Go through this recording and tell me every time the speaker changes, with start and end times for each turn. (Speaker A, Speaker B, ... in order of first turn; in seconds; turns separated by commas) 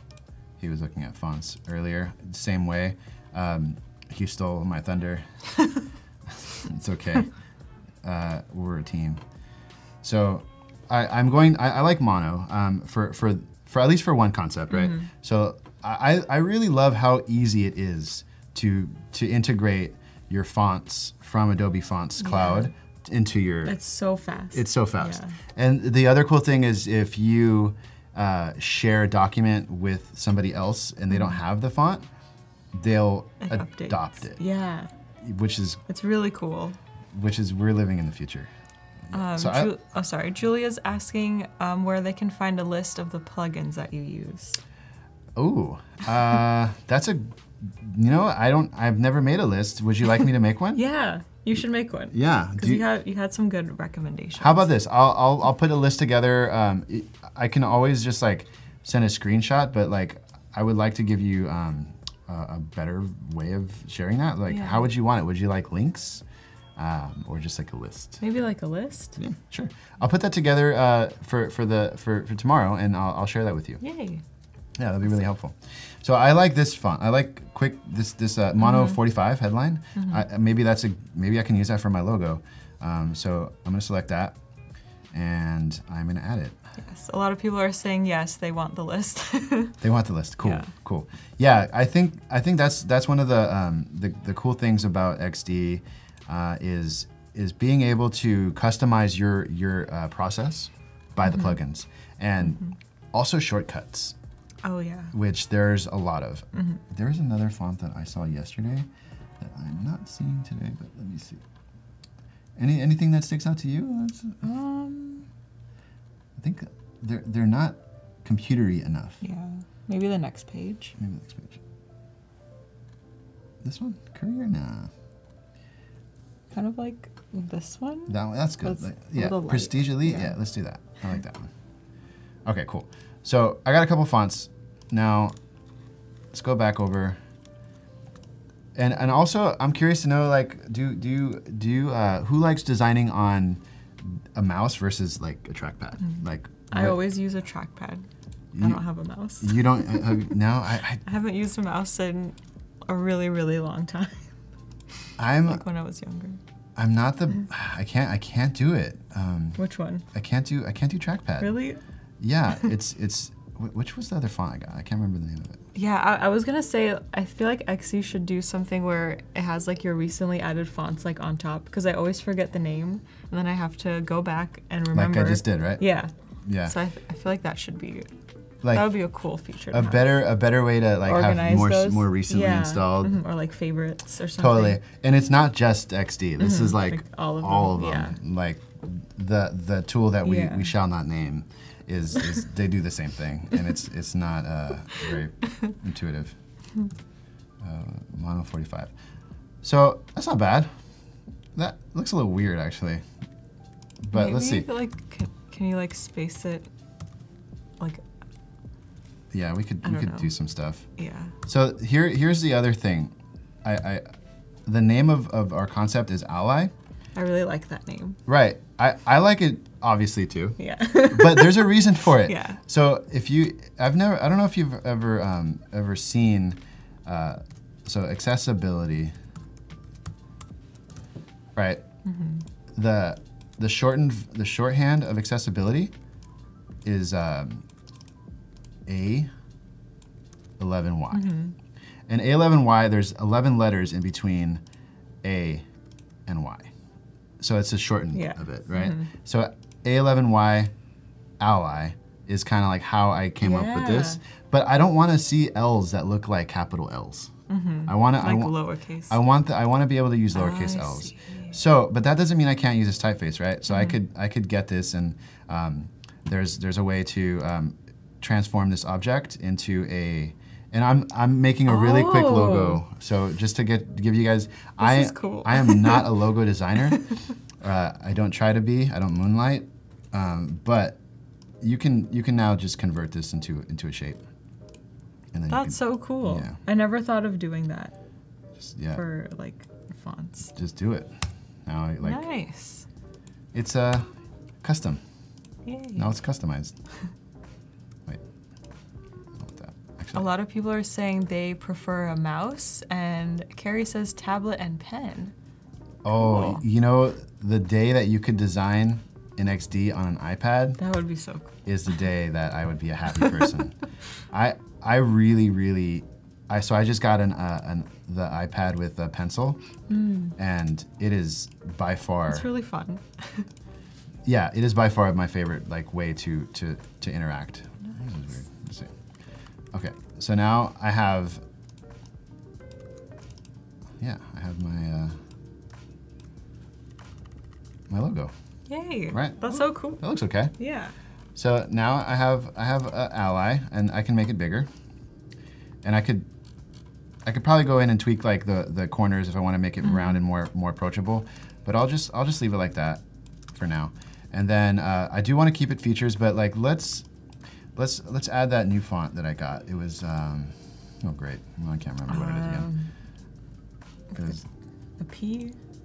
Speaker A: 0.6-5.3, Speaker A: 6.6-7.3, Speaker A: 8.0-9.2, Speaker A: 10.0-23.8, Speaker B: 14.7-15.1, Speaker B: 22.2-22.7, Speaker B: 23.6-25.3, Speaker A: 24.5-32.0, Speaker B: 31.1-31.4, Speaker A: 32.7-34.4, Speaker B: 33.4-34.9, Speaker A: 35.2-35.8, Speaker B: 35.9-36.8, Speaker A: 37.1-38.5, Speaker A: 39.1-39.7, Speaker B: 39.1-44.6, Speaker A: 45.4-50.8, Speaker B: 50.7-54.7, Speaker A: 52.1-52.9, Speaker A: 54.4-66.2, Speaker B: 64.5-64.9, Speaker A: 66.8-68.2, Speaker B: 68.2-69.2, Speaker A: 69.2-73.8, Speaker B: 73.8-74.2, Speaker A: 74.8-84.4, Speaker B: 78.6-79.0, Speaker B: 80.0-80.2, Speaker A: 85.1-86.6, Speaker B: 86.8-89.8, Speaker A: 89.8-102.6, Speaker B: 90.4-90.7, Speaker B: 101.2-101.6, Speaker A: 103.1-104.2, Speaker B: 104.6-105.1, Speaker A: 105.1-108.9, Speaker B: 106.5-106.8, Speaker A: 109.4-111.4, Speaker A: 112.6-114.4, Speaker B: 114.4-115.3, Speaker A: 116.3-119.2, Speaker B: 119.2-120.9, Speaker A: 121.0-121.6, Speaker A: 123.6-124.9, Speaker B: 126.5-130.3, Speaker A: 128.1-131.5, Speaker A: 132.4-135.3, Speaker A: 136.3-137.2, Speaker A: 138.7-147.0, Speaker B: 146.0-150.0, Speaker A: 148.5-148.8, Speaker A: 149.4-151.0, Speaker B: 151.0-154.3, Speaker A: 155.2-155.6, Speaker B: 155.4-156.4, Speaker A: 156.8-159.6, Speaker B: 159.6-160.0, Speaker A: 160.1-161.5, Speaker B: 161.4-161.8, Speaker A: 162.2-165.6, Speaker B: 165.7-176.1, Speaker A: 174.9-175.8, Speaker A: 176.4-176.7, Speaker B: 176.6-178.1, Speaker A: 178.6-178.9, Speaker B: 178.7-180.0, Speaker A: 179.7-183.2, Speaker B: 181.0-184.8, Speaker A: 184.4-196.3, Speaker B: 186.4-188.2, Speaker B: 190.2-190.7, Speaker A: 197.6-198.9, Speaker A: 199.6-200.7, Speaker A: 201.5-203.0, Speaker A: 204.0-204.7, Speaker B: 204.1-206.7, Speaker A: 209.3-210.8, Speaker B: 209.8-210.3, Speaker B: 211.0-211.3, Speaker A: 211.5-214.1, Speaker A: 214.7-216.7, Speaker B: 217.2-218.2, Speaker A: 218.3-220.6, Speaker B: 220.6-222.6, Speaker A: 221.1-229.1, Speaker A: 231.6-231.8, Speaker B: 232.0-232.4, Speaker A: 232.7-235.9, Speaker A: 236.8-237.6, Speaker A: 238.8-239.3, Speaker A: 240.6-241.3, Speaker B: 241.1-241.5, Speaker A: 242.1-244.6, Speaker A: 245.2-245.7, Speaker A: 246.3-246.7, Speaker A: 247.4-250.7, Speaker B: 248.1-249.1, Speaker A: 251.4-257.3, Speaker B: 253.4-254.2, Speaker B: 257.5-259.2, Speaker A: 257.9-258.6, Speaker A: 259.1-277.1, Speaker B: 260.3-261.6, Speaker B: 263.7-264.0, Speaker B: 271.7-272.8, Speaker B: 274.8-276.1, Speaker A: 277.6-281.0, Speaker A: 281.6-284.2, Speaker A: 285.3-286.6, Speaker B: 285.5-287.9, Speaker A: 288.6-289.0, Speaker B: 288.9-290.5, Speaker A: 290.5-292.2, Speaker B: 292.0-292.9, Speaker A: 293.5-294.1, Speaker A: 294.6-295.0, Speaker B: 295.6-296.1, Speaker A: 295.9-296.8, Speaker A: 299.4-300.3, Speaker B: 300.1-305.3, Speaker A: 306.0-310.8, Speaker B: 306.1-306.6, Speaker B: 310.8-311.5, Speaker A: 311.6-313.7, Speaker A: 314.3-319.6, Speaker B: 319.9-320.3, Speaker A: 320.4-322.5, Speaker B: 322.3-323.4, Speaker A: 324.2-328.9, Speaker A: 329.7-331.4, Speaker A: 334.0-335.2, Speaker A: 337.9-338.3, Speaker B: 338.7-340.0, Speaker A: 339.1-340.5, Speaker B: 340.6-340.9, Speaker A: 341.3-344.7, Speaker A: 345.8-346.3, Speaker A: 347.2-357.1, Speaker B: 349.8-350.2, Speaker A: 357.7-362.7, Speaker B: 362.1-362.9, Speaker A: 364.1-364.4, Speaker B: 365.0-365.6